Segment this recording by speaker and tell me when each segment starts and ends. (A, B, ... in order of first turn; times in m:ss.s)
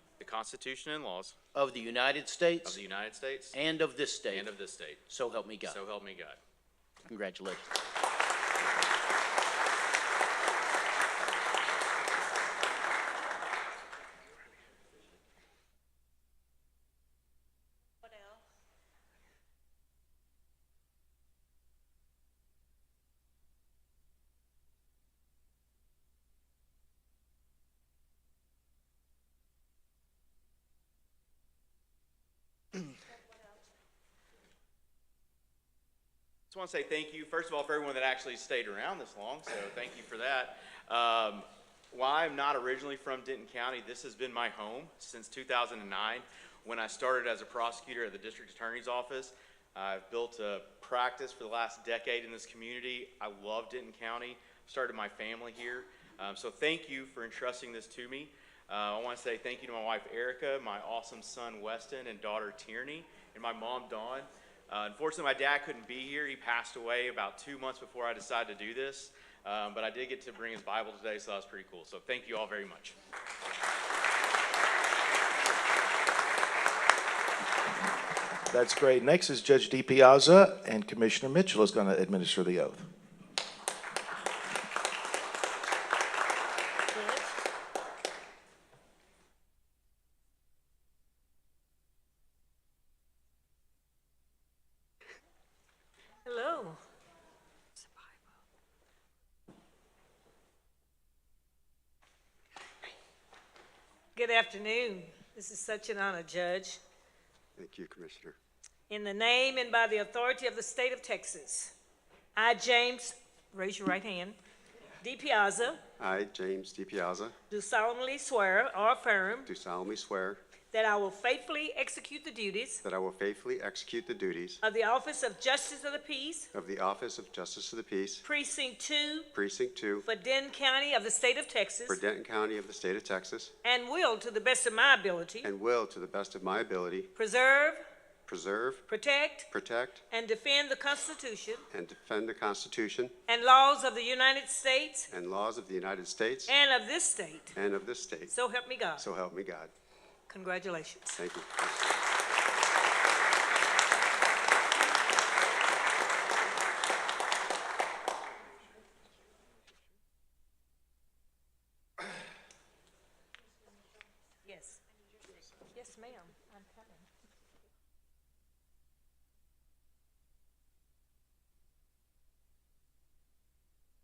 0:00.2-0:01.4 A
0:01.5-0:02.8 B
0:02.6-0:03.6 A
0:03.5-0:04.5 B
0:04.3-0:05.1 A
0:05.1-0:05.8 B
0:05.6-0:06.4 A
0:07.1-0:07.6 B
0:36.5-1:13.0 A
1:18.5-1:22.9 C
1:26.9-1:27.2 D
1:36.2-1:36.8 D
1:37.8-1:38.1 D
1:44.2-1:46.8 D
1:47.6-1:48.4 E
1:48.9-1:51.7 D
1:52.4-1:54.4 D
1:55.0-1:55.8 D
1:56.0-1:57.4 E
1:57.5-1:59.5 D
1:59.5-2:00.4 E
2:00.7-2:02.8 D
2:02.8-2:04.6 E
2:04.6-2:06.5 D
2:06.5-2:08.2 E
2:08.2-2:09.3 D
2:09.3-2:10.1 E
2:10.0-2:12.0 D
2:11.9-2:13.5 E
2:13.6-2:15.5 D
2:15.4-2:17.1 E
2:17.2-2:17.8 D
2:18.3-2:18.9 E
2:18.9-2:19.5 D
2:19.5-2:20.0 E
2:20.1-2:21.7 D
2:21.7-2:23.2 E
2:23.3-2:25.1 D
2:25.1-2:26.6 E
2:26.5-2:27.5 D
2:27.5-2:28.3 E
2:28.3-2:29.1 D
2:28.9-2:29.7 E
2:30.3-2:31.2 D
2:31.1-2:32.0 E
2:44.4-2:44.8 D
2:45.7-2:47.1 D